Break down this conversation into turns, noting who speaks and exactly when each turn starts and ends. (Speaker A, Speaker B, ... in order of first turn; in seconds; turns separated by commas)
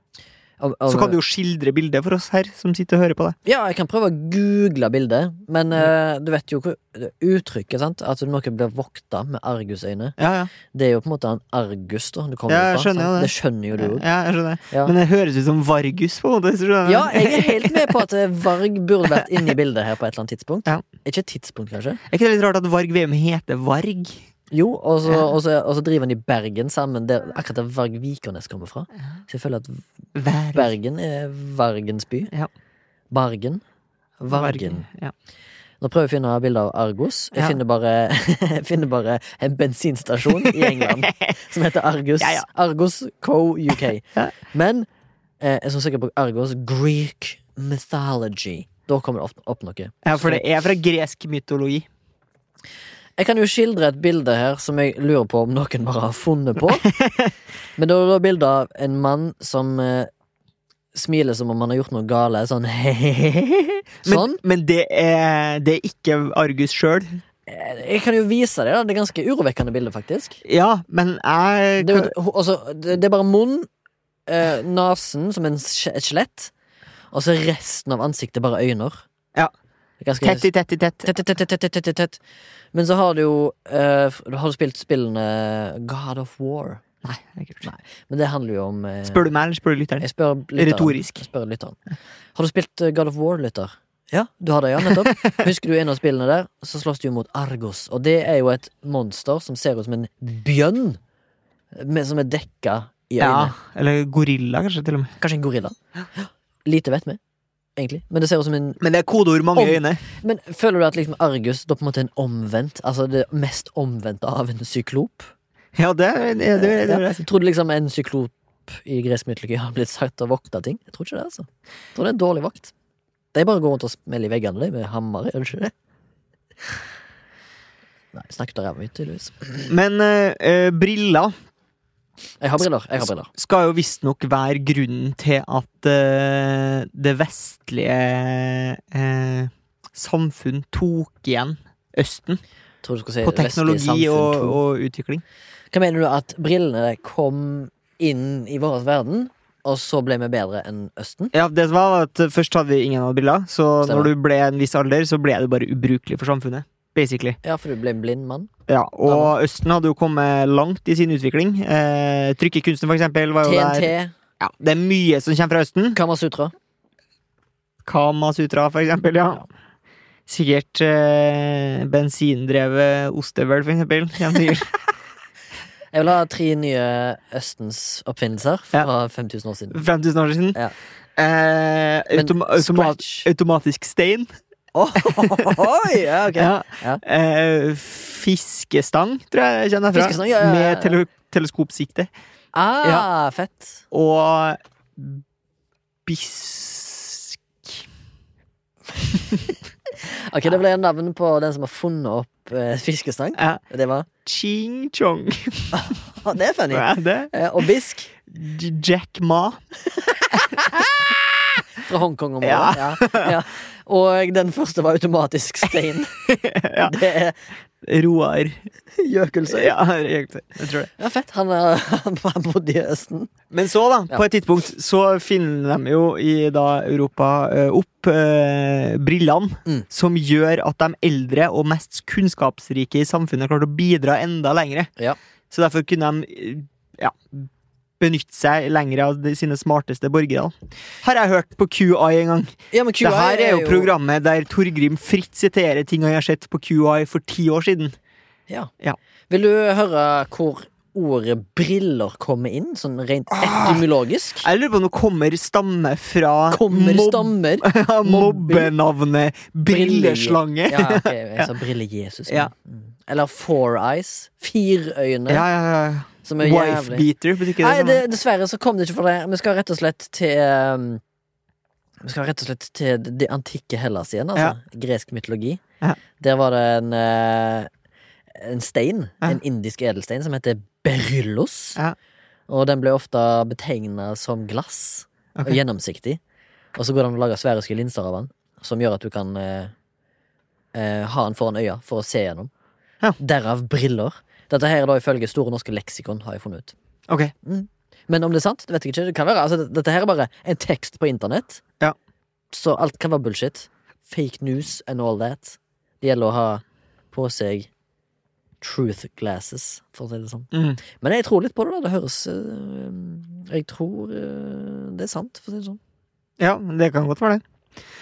Speaker A: 0.6-1.2, Speaker B: 0.9-3.4, Speaker A: 3.4-10.2, Speaker B: 10.2-10.5, Speaker A: 10.7-14.0, Speaker B: 12.5-18.0, Speaker A: 16.8-22.0, Speaker B: 22.1-24.3, Speaker A: 24.5-29.8, Speaker B: 30.1-30.7, Speaker A: 30.5-32.3, Speaker A: 33.1-33.6, Speaker A: 34.2-34.9, Speaker B: 34.3-35.1, Speaker A: 35.8-44.9, Speaker B: 40.3-41.4, Speaker B: 42.2-42.4, Speaker A: 45.4-50.4, Speaker B: 50.0-51.9, Speaker A: 53.2-56.9, Speaker B: 56.8-57.3, Speaker A: 57.8-60.1, Speaker A: 60.9-64.4, Speaker B: 64.0-67.2, Speaker A: 67.5-70.4, Speaker B: 70.4-72.1, Speaker A: 71.8-73.7, Speaker A: 74.3-76.5, Speaker A: 77.1-79.0, Speaker A: 80.0-80.5, Speaker B: 80.2-81.1, Speaker A: 81.0-82.2, Speaker A: 82.7-86.8, Speaker B: 87.0-87.7, Speaker A: 87.6-89.3, Speaker B: 89.0-90.0, Speaker A: 90.0-91.8, Speaker B: 90.6-91.2, Speaker A: 92.3-101.0, Speaker B: 94.9-95.3, Speaker A: 101.7-103.5, Speaker B: 103.2-105.1, Speaker A: 105.2-107.2, Speaker A: 107.8-108.8, Speaker B: 108.8-110.0, Speaker A: 109.5-115.3, Speaker B: 115.7-117.2, Speaker A: 116.6-122.7, Speaker A: 123.3-125.7, Speaker A: 128.1-129.7, Speaker B: 129.7-131.3, Speaker A: 132.4-133.3, Speaker B: 133.0-142.4, Speaker A: 142.8-144.6, Speaker B: 143.2-145.2, Speaker A: 145.7-151.3, Speaker B: 151.3-157.4, Speaker A: 153.8-154.1, Speaker A: 157.4-158.5, Speaker B: 158.7-166.0, Speaker A: 159.0-159.3, Speaker A: 163.4-164.1, Speaker A: 165.9-166.5, Speaker B: 167.8-169.4, Speaker B: 170.3-174.8, Speaker A: 175.9-179.8, Speaker B: 179.7-180.6, Speaker B: 181.2-184.3, Speaker A: 182.1-183.3, Speaker A: 184.7-187.0, Speaker B: 184.9-185.6, Speaker B: 186.3-192.1, Speaker A: 189.9-191.0, Speaker A: 192.5-193.8, Speaker B: 193.9-195.2, Speaker B: 196.1-197.8, Speaker A: 200.0-204.1, Speaker B: 204.2-205.9, Speaker A: 205.7-208.1, Speaker B: 206.7-207.6, Speaker B: 208.3-209.6, Speaker A: 209.9-210.8, Speaker A: 211.8-216.2, Speaker B: 212.4-213.3, Speaker B: 216.3-216.9, Speaker A: 216.8-217.3, Speaker B: 217.8-218.6, Speaker A: 218.9-219.8, Speaker B: 219.5-220.9, Speaker A: 221.0-223.3, Speaker B: 223.5-234.9, Speaker B: 235.5-237.5, Speaker B: 238.0-247.9, Speaker A: 242.7-243.9, Speaker A: 249.3-254.5, Speaker B: 253.4-253.8, Speaker B: 254.4-261.5, Speaker A: 256.5-258.7, Speaker A: 259.7-265.4, Speaker B: 265.3-268.0, Speaker A: 266.2-271.0, Speaker A: 272.0-275.6, Speaker A: 276.2-277.7, Speaker A: 278.3-281.8, Speaker A: 282.5-286.2, Speaker A: 286.8-289.7, Speaker A: 290.7-292.5, Speaker A: 293.2-296.7, Speaker B: 297.1-297.3, Speaker A: 297.4-301.6, Speaker A: 302.5-307.7, Speaker A: 308.6-315.8, Speaker B: 310.5-310.8, Speaker B: 316.4-317.4